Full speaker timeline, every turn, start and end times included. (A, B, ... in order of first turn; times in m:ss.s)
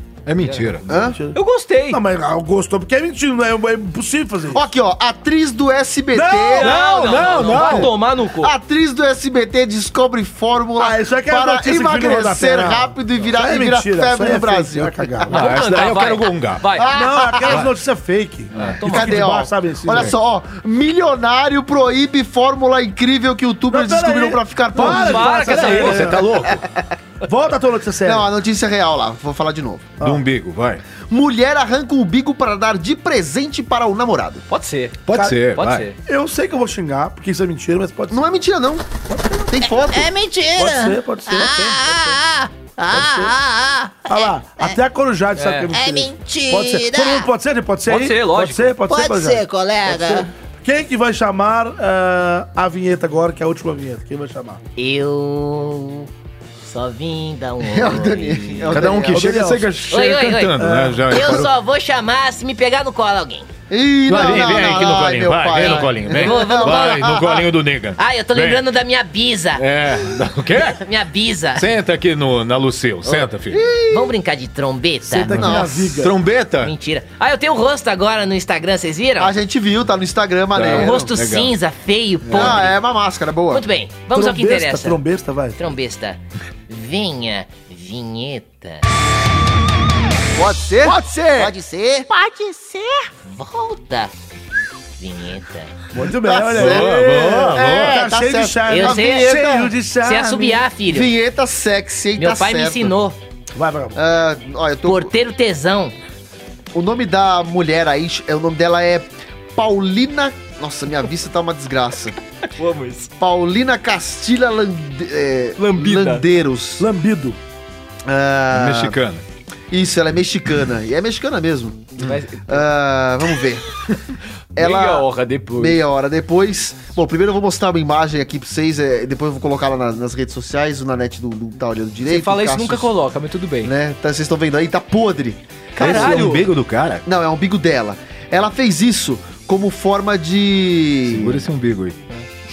0:00.2-0:00.9 A
0:00.4-0:00.7 B
0:00.8-0:01.4 C
0:00.9-0:01.2 D
0:01.3-0:02.0 B
0:01.9-0:04.6 C
0:04.5-0:15.2 D
0:06.1-0:07.8 C
0:06.6-0:08.5 B
0:06.6-0:07.9 A
0:10.8-0:15.4 C
0:15.3-0:16.6 A
0:15.3-0:16.9 B
0:16.8-0:17.6 D
0:16.9-0:20.1 C
0:18.5-0:18.8 A
0:18.6-0:19.3 B
0:18.8-0:25.6 D
0:23.7-0:26.4 C
0:24.8-0:26.2 B
0:25.5-0:26.6 A
0:27.2-0:28.3 C
0:28.0-0:29.9 D
0:30.0-0:30.8 A
0:31.1-0:34.4 D
0:34.5-0:36.0 B
0:35.0-0:35.8 A
0:35.1-0:35.4 C
0:36.0-0:38.2 C
0:38.1-0:38.9 D
0:39.1-0:39.5 C
0:39.5-0:40.1 D
0:39.6-0:44.8 E
0:40.6-0:42.1 C
0:42.9-0:43.3 C
0:44.0-0:54.6 C
0:45.4-0:45.7 B
0:45.7-0:47.3 E
0:47.9-0:48.8 B
0:48.8-0:50.3 E
0:54.8-0:56.1 F
0:56.6-0:58.8 F
0:57.7-0:59.5 D
0:58.7-1:01.5 A
0:59.0-0:59.8 C
0:59.9-1:03.5 F
1:00.6-1:01.3 C
1:03.7-1:07.5 D
1:04.1-1:08.6 A
1:05.6-1:07.2 F
1:08.0-1:09.6 F
1:09.6-1:10.8 A
1:10.7-1:11.7 F
1:11.6-1:13.6 A
1:13.5-1:14.1 D
1:13.9-1:15.4 F
1:15.0-1:16.1 C
1:15.2-1:16.0 D
1:16.0-1:16.7 A
1:16.6-1:19.3 F
1:19.2-1:21.1 D
1:20.5-1:21.6 A
1:20.7-1:22.8 F
1:22.2-1:22.7 A
1:22.3-1:23.6 D
1:23.5-1:25.0 F
1:24.1-1:25.6 C
1:25.6-1:28.8 F
1:30.4-1:32.0 D
1:31.3-1:32.6 F
1:32.3-1:32.7 E
1:33.2-1:34.1 F
1:35.0-1:35.7 F
1:35.9-1:40.6 C
1:36.1-1:39.7 D
1:36.5-1:38.0 A
1:38.7-1:41.1 F
1:40.9-1:43.0 D
1:42.2-1:43.2 F
1:43.5-1:44.0 C
1:44.0-1:45.1 D
1:44.8-1:46.0 F
1:46.7-1:52.2 D
1:52.6-1:53.1 B
1:53.2-1:56.8 D
1:55.6-1:56.2 B
1:56.8-1:57.4 C
1:58.0-1:59.0 D
1:58.5-1:59.2 A
1:59.7-2:01.9 D
2:02.0-2:02.6 B
2:02.5-2:03.6 D
2:04.6-2:12.9 D
2:04.6-2:05.8 B
2:12.0-2:13.7 B
2:13.6-2:16.3 D
2:15.7-2:16.5 B
2:15.8-2:17.0 A
2:17.0-2:21.4 D
2:21.1-2:22.0 A